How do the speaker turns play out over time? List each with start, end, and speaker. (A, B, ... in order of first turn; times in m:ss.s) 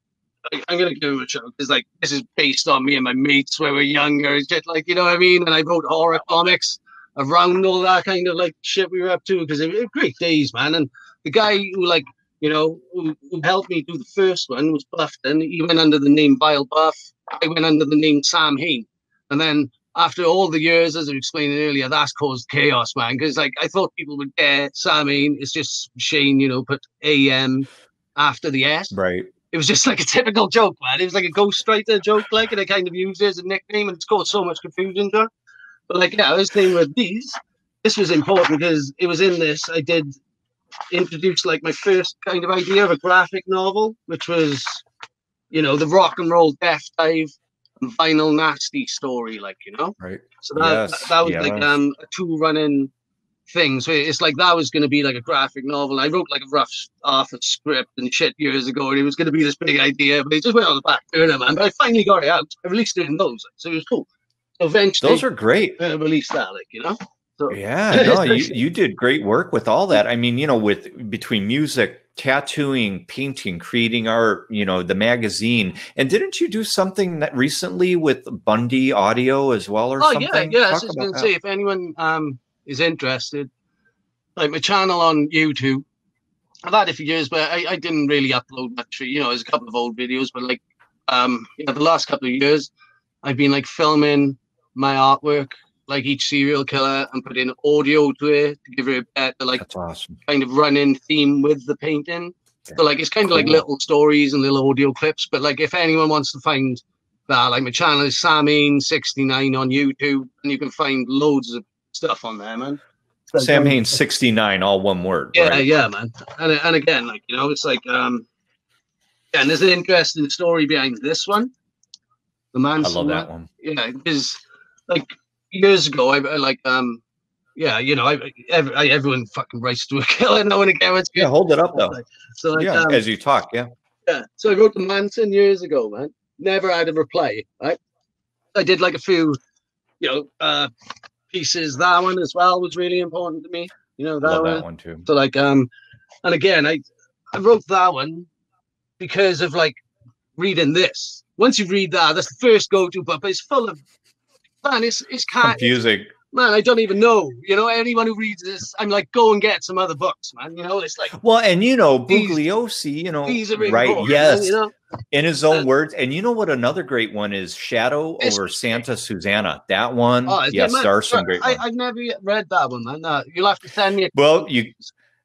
0:00.5-0:28.9 A
0:28.9-0:29.3 B
0:29.5-0:35.3 A
0:35.9-0:40.1 A
0:40.9-0:44.8 A
0:45.5-0:52.9 A
0:50.0-0:51.7 B
0:53.5-1:04.1 A
1:04.6-1:05.2 A
1:05.0-1:05.8 B
1:05.8-1:08.6 A
1:07.5-1:21.3 B
1:20.0-1:23.5 A
1:24.4-1:25.9 A
1:26.6-1:32.7 A
1:33.2-1:39.6 A
1:39.6-1:40.2 B
1:40.3-1:52.8 A
1:42.7-1:43.6 B
1:53.3-1:54.0 A
1:53.4-1:55.7 B
1:55.3-1:58.3 A
1:59.3-2:01.5 A
2:02.5-2:07.0 A
2:02.8-2:03.5 B
2:07.6-2:13.0 A
2:11.2-2:12.0 B
2:12.6-2:13.7 B
2:14.1-2:17.8 A
2:18.5-2:19.4 A
2:20.0-2:20.7 A
2:21.3-2:25.7 A
2:24.2-2:25.1 B
2:26.2-2:26.8 A
2:27.3-2:28.3 A
2:29.0-2:29.8 A
2:30.4-2:33.8 A
2:34.6-2:35.7 A
2:35.4-2:36.1 B
2:36.3-2:41.1 A
2:41.1-2:44.6 B
2:42.1-2:42.4 A
2:43.3-2:44.7 A
2:45.1-2:51.6 B
2:48.2-2:48.8 A
2:50.3-2:54.2 A
2:54.1-2:54.8 B